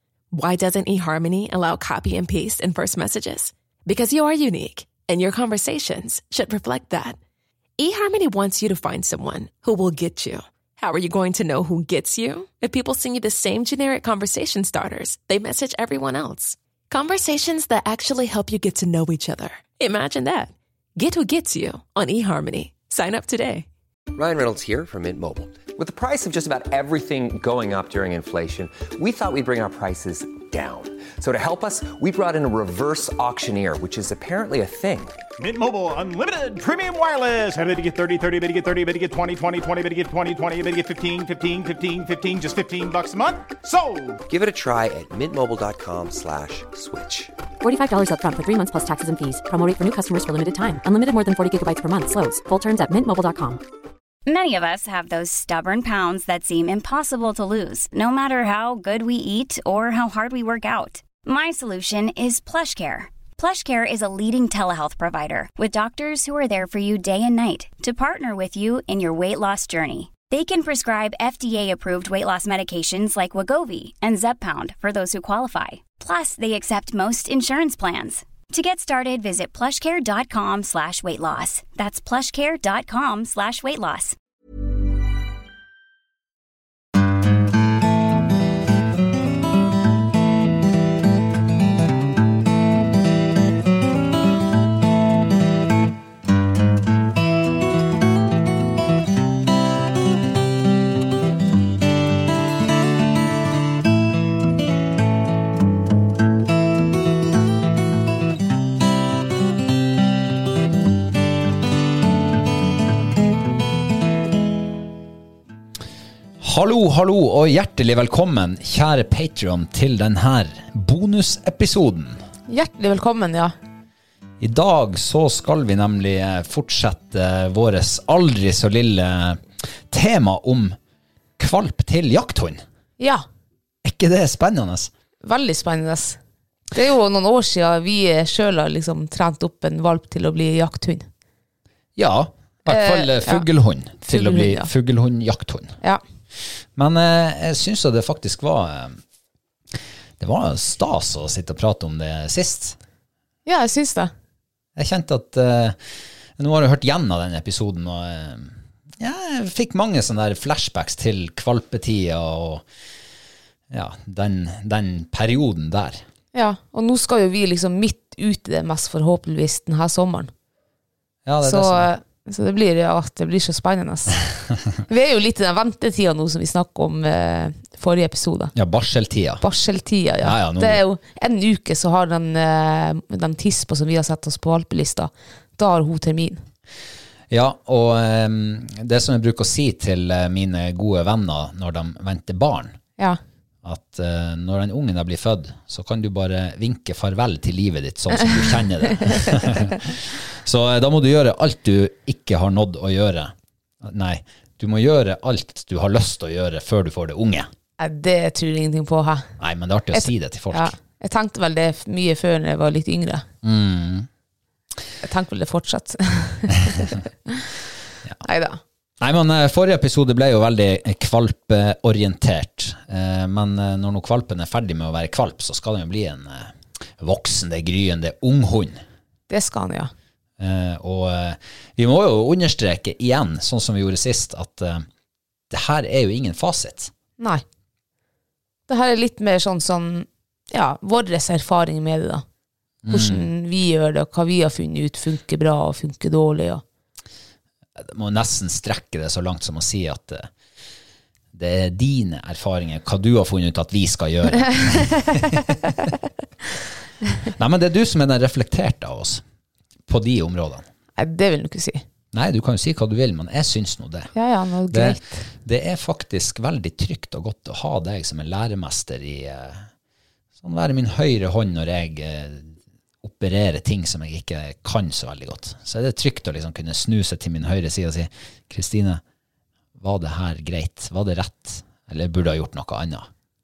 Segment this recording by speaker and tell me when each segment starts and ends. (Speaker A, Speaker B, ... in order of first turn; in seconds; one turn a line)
Speaker A: 0.3-7.2
Speaker A: 7.8-23.6
Speaker B: 24.1-35.2
Speaker C: 35.4-44.2
Speaker B: 44.3-47.3
Speaker D: 47.6-53.6
Speaker E: 54.2-84.2
Speaker F: 116.4-122.2
Speaker G: 122.5-123.5
Speaker F: 124.4-130.8
Speaker F: 131.4-132.6
Speaker F: 133.8-134.9
Speaker G: 135.2-136.2
Speaker G: 136.7-141.1
Speaker F: 141.9-145.8
Speaker G: 142.7-143.4
Speaker G: 144.1-144.7
Speaker F: 146.8-149.0
Speaker F: 150.2-152.8
Speaker G: 153.4-154.1
Speaker F: 154.8-155.8
Speaker F: 156.4-162.6
Speaker F: 163.7-166.0
Speaker G: 166.3-170.3
Speaker F: 171.2-171.9
Speaker G: 171.4-174.2
Speaker G: 174.8-178.5
Speaker F: 178.5-179.4
Speaker G: 179.4-186.4
Speaker F: 180.2-180.8
Speaker F: 187.3-192.8
Speaker F: 193.6-207.5
Speaker G: 207.8-209.3
Speaker F: 209.4-210.8
Speaker G: 209.9-213.2
Speaker F: 213.4-214.1
Speaker G: 215.0-217.4
Speaker G: 218.2-218.6
Speaker F: 219.0-228.8
Speaker G: 229.3-229.9
Speaker F: 230.4-234.8
Speaker F: 235.5-236.9
Speaker G: 238.7-242.2
Speaker F: 242.8-243.3
Speaker G: 242.9-246.6
Speaker F: 247.8-250.3
Speaker F: 251.3-255.5
Speaker F: 257.4-259.2
Speaker F: 259.9-260.6
Speaker G: 261.0-261.8
Speaker F: 262.1-264.1
Speaker G: 264.1-265.2
Speaker F: 264.7-269.7
Speaker F: 270.4-279.0
Speaker F: 279.8-283.1